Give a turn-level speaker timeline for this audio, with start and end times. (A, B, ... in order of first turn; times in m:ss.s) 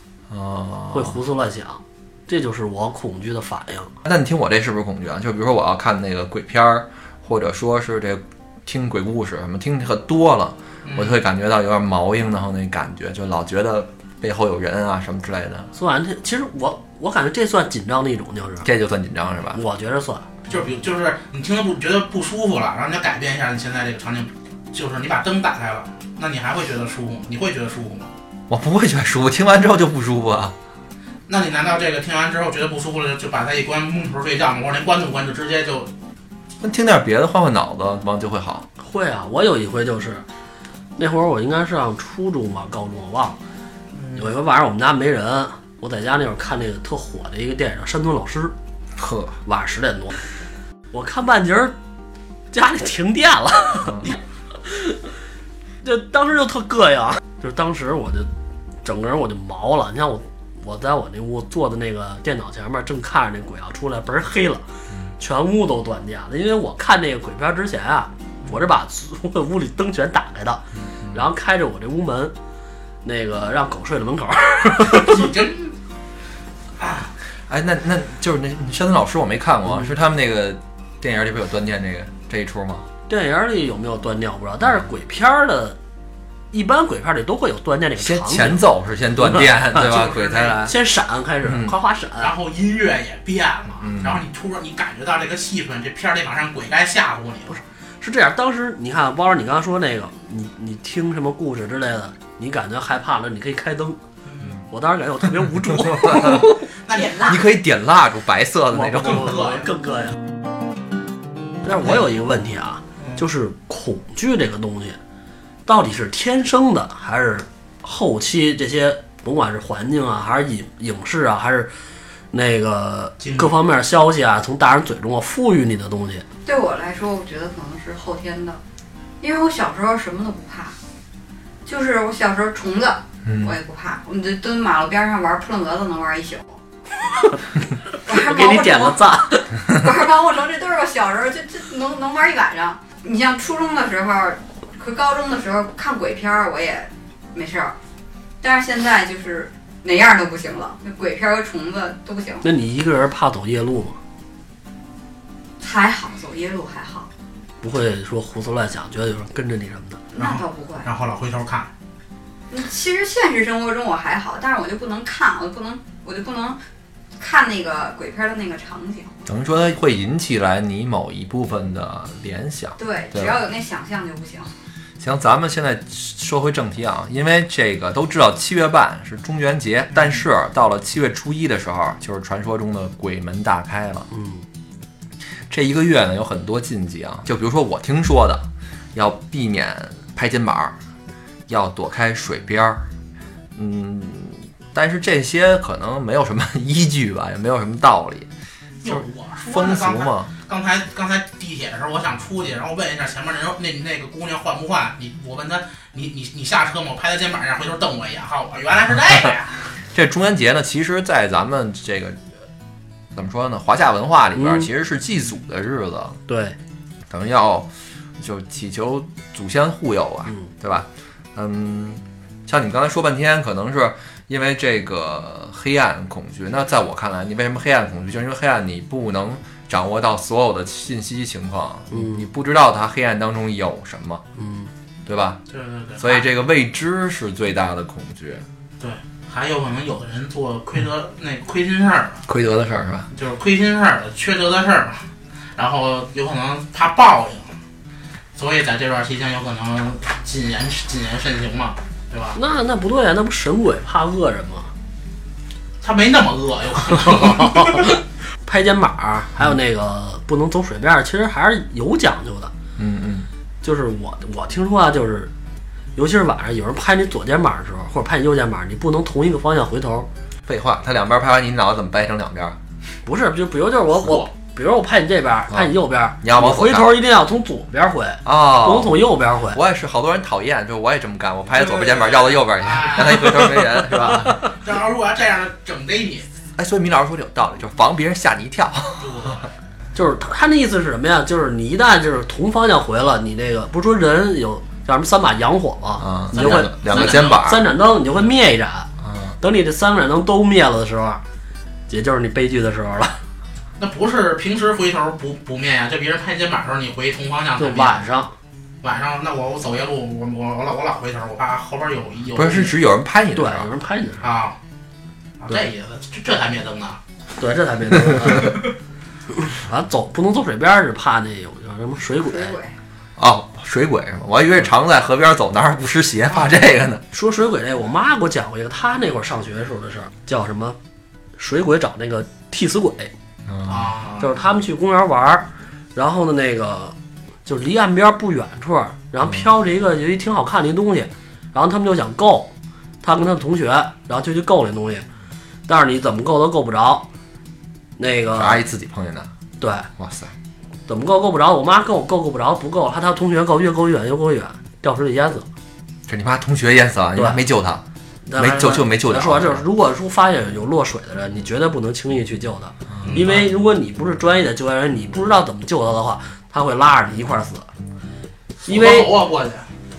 0:00.3-0:01.2 A
0:00.9-0:03.9 B
0:04.0-0:15.7 A
0:10.8-0:11.2 C
0:15.7-0:18.7 B
0:18.6-0:19.6 A
0:19.5-0:20.3 B
0:20.5-0:28.1 C
0:28.5-0:30.5 A
0:31.3-0:35.9 C
0:36.6-0:38.7 A
0:38.8-0:40.2 B
0:41.0-0:43.4 B
0:43.9-0:44.2 C
0:44.1-0:48.5 B
0:49.0-0:49.4 A
0:49.4-0:50.2 B
0:50.9-0:51.7 B
0:52.5-0:55.1 B
0:55.8-0:58.3 B
0:58.8-1:04.6 B
1:05.2-1:12.3 B
1:10.8-1:11.2 A
1:13.0-1:15.3 B
1:14.9-1:15.7 C
1:16.8-1:17.1 C
1:17.5-1:22.8 A
1:23.1-1:25.8 B
1:26.5-1:28.6 B
1:28.0-1:30.7 A
1:29.2-1:30.1 B
1:29.8-1:30.6 C
1:30.6-1:32.3 B
1:31.4-1:31.7 A
1:32.2-1:37.6 C
1:33.8-1:34.2 A
1:37.5-1:44.0 B
1:44.3-1:44.6 C
1:44.7-1:46.5 B
1:45.9-1:46.4 A
1:46.0-1:46.3 C
1:46.8-1:47.3 C
1:46.9-1:47.4 D
1:47.2-1:49.5 A
1:48.7-1:50.2 B
1:49.0-1:49.7 C
1:51.6-1:55.0 B
1:55.6-2:01.7 B
2:02.3-2:06.2 B
2:03.2-2:03.6 C
2:06.4-2:08.6 D
2:09.2-2:10.7 D
2:11.6-2:16.6 D
2:13.2-2:13.6 A
2:17.9-2:19.5 B
2:18.0-2:27.7 D
2:28.4-2:32.4 D
2:32.4-2:34.0 B
2:35.6-2:37.1 D
2:37.6-2:40.0 B
2:40.1-2:40.9 D
2:40.2-2:41.7 C
2:42.5-2:46.6 D
2:47.2-2:49.1 D
2:49.2-2:53.4 A
2:52.8-2:54.5 D
2:55.0-3:04.1 A
3:04.1-3:04.4 B
3:05.5-3:10.8 A
3:11.5-3:12.8 A
3:13.5-3:18.3 A
3:18.8-3:29.7 C
3:18.8-3:20.3 A
3:29.9-3:32.2 A
3:33.1-3:36.2 A
3:34.3-3:34.7 B
3:36.3-3:36.6 B
3:37.1-3:54.2 A
3:51.9-3:52.2 B
3:54.4-3:54.7 B
3:55.0-3:55.4 A
3:55.5-3:56.3 C
3:56.0-3:58.4 A
3:58.8-4:02.2 C
4:02.3-4:03.1 A
4:03.1-4:05.0 C
4:05.6-4:07.6 C
4:08.4-4:12.4 C
4:12.3-4:14.7 B
4:15.8-4:17.9 C
4:17.4-4:17.9 B
4:18.4-4:22.5 B
4:22.8-4:23.3 A
4:23.6-4:25.3 B
4:26.0-4:30.1 B
4:30.4-4:32.6 A
4:33.0-4:39.6 B
4:35.5-4:36.9 A
4:38.2-4:44.4 A
4:41.6-4:46.3 C
4:46.6-4:49.4 A
4:49.0-4:49.5 C
4:49.9-5:01.2 B
4:56.0-4:57.6 A
4:56.3-4:57.4 C
4:59.0-4:59.4 A
5:01.9-5:03.2 B
5:03.8-5:08.0 C
5:07.6-5:08.3 B
5:08.8-5:12.7 C
5:12.3-5:13.7 A
5:13.3-5:14.3 B
5:14.2-5:14.6 C
5:15.4-5:17.0 C
5:17.4-5:18.7 B
5:19.3-5:22.6 B
5:22.2-5:22.8 D
5:23.2-5:27.0 A
5:27.1-5:30.8 B
5:31.4-5:33.1 B
5:33.5-5:33.9 A
5:33.6-5:34.3 C
5:34.2-5:45.1 B
5:45.7-5:47.1 B
5:48.0-5:48.6 B
5:48.4-5:49.3 A
5:49.6-5:49.9 B
5:50.0-5:50.3 A
5:50.9-5:55.5 B
5:56.1-5:57.8 A
5:57.2-5:57.4 B
5:58.2-6:07.7 B
5:58.4-5:59.6 A
6:03.0-6:03.5 C
6:08.6-6:09.7 C
6:08.7-6:09.1 B